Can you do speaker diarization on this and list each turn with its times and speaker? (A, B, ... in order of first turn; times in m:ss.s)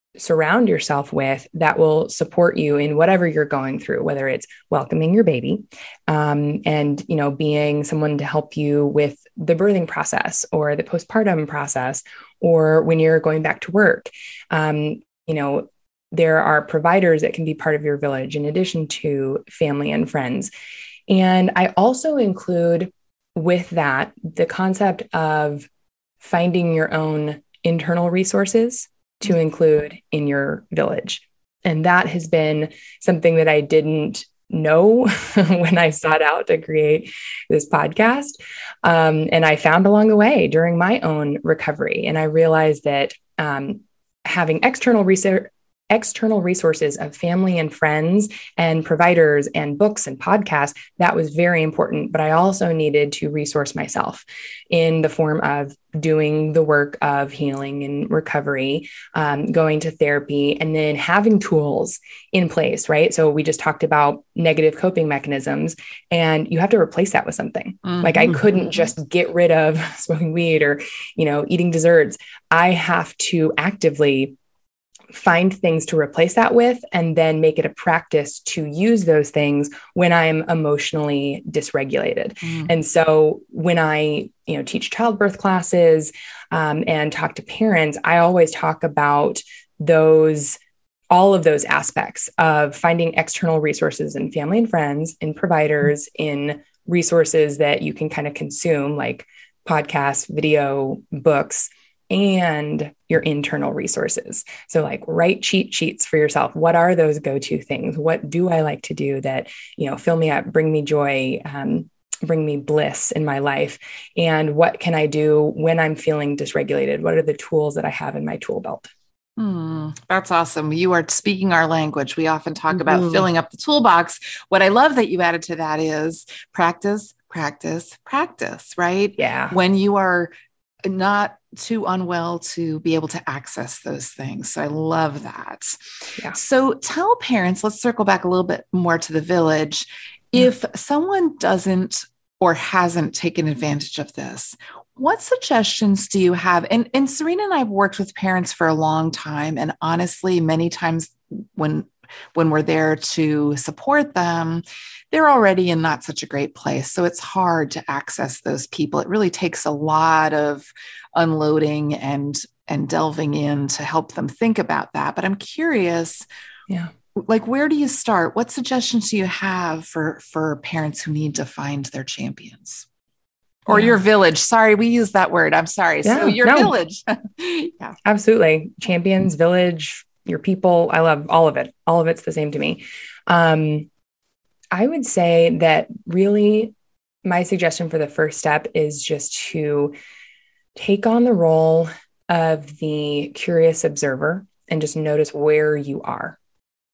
0:00.2-0:20.5 A
0:21.1-0:25.7 A
0:26.2-1:14.4 A
1:07.8-1:08.7 B
1:15.1-1:30.6 A
1:22.4-1:22.7 B
1:31.1-1:58.9 A
1:59.4-2:10.3 B
2:09.2-2:09.6 A
2:10.8-2:15.8 B
2:16.3-2:46.2 B
2:47.2-2:52.8 B
2:53.7-2:58.0 B
2:53.7-2:54.0 A
2:56.0-2:56.7 A
2:58.0-3:03.9 A
3:04.7-3:06.7 A
3:07.2-3:09.9 A
3:10.8-3:16.4 A